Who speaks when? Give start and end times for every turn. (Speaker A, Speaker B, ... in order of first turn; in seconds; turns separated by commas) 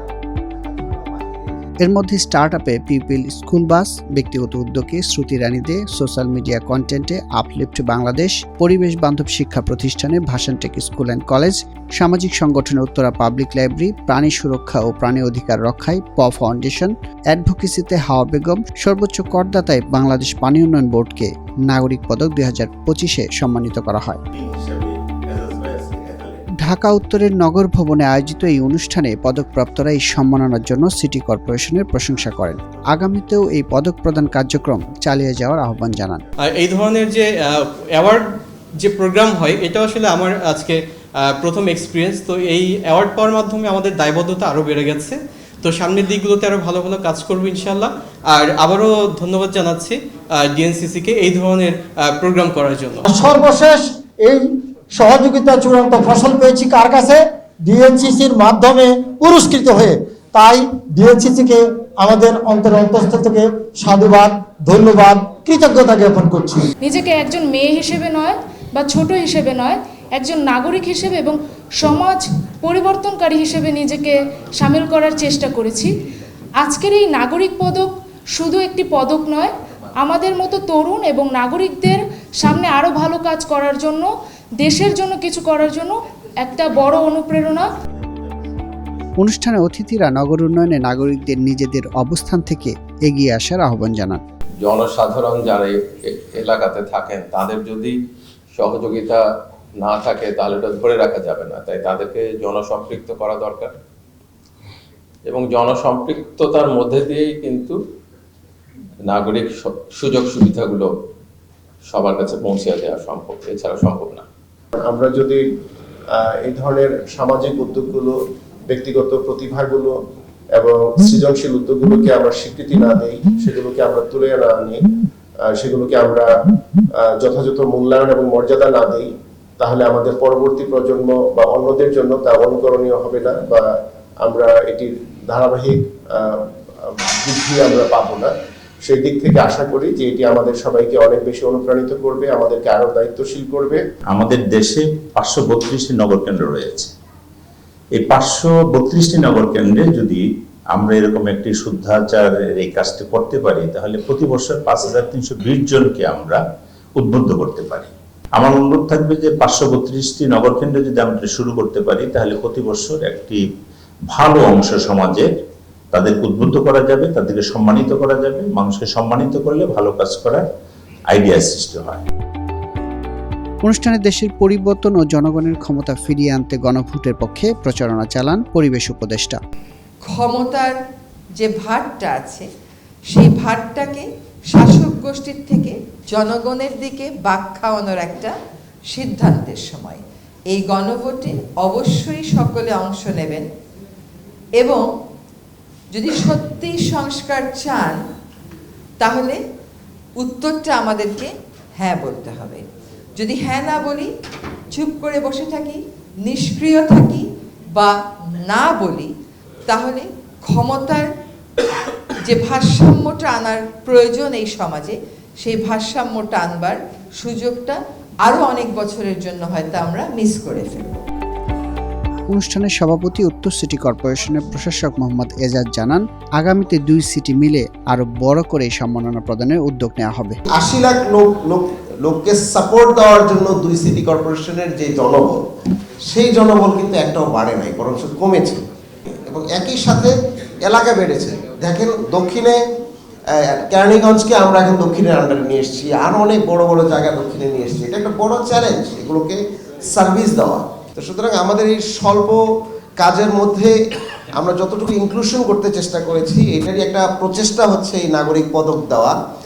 Speaker A: 0.4-1.7, Speaker B: 1.8-24.2, Speaker C: 24.3-26.4, Speaker B: 26.6-36.2, Speaker D: 36.5-53.0, Speaker E: 53.1-54.4, Speaker E: 55.0-66.6, Speaker F: 66.8-75.9, Speaker F: 76.6-87.7, Speaker C: 88.0-88.6, Speaker B: 89.2-94.2, Speaker G: 94.6-97.9, Speaker G: 98.5-99.2, Speaker G: 99.8-103.7, Speaker G: 105.3-107.8, Speaker G: 109.1-110.9, Speaker G: 111.9-114.2, Speaker H: 114.8-115.4, Speaker H: 116.4-118.2, Speaker H: 118.7-119.9, Speaker H: 120.6-124.8, Speaker H: 125.6-126.3, Speaker H: 127.2-129.1, Speaker H: 129.6-133.6, Speaker H: 134.2-135.8, Speaker H: 137.2-138.3, Speaker H: 138.8-143.8, Speaker C: 144.1-146.9, Speaker C: 147.9-156.4, Speaker C: 157.0-163.4, Speaker C: 164.1-165.3, Speaker C: 165.9-170.4, Speaker C: 171.1-172.0, Speaker B: 173.7-179.4, Speaker I: 180.1-180.8, Speaker I: 181.4-182.4, Speaker I: 183.1-188.3, Speaker I: 188.9-193.5, Speaker I: 195.9-198.0, Speaker I: 199.0-199.4, Speaker I: 200.2-202.6, Speaker I: 203.2-204.1, Speaker I: 204.7-207.2, Speaker I: 208.5-209.1, Speaker I: 209.7-211.1, Speaker I: 212.2-221.0, Speaker B: 222.3-230.4, Speaker A: 230.6-235.4, Speaker A: 236.1-238.6, Speaker A: 239.1-242.6, Speaker A: 243.3-252.4, Speaker A: 253.0-253.8, Speaker A: 254.4-259.1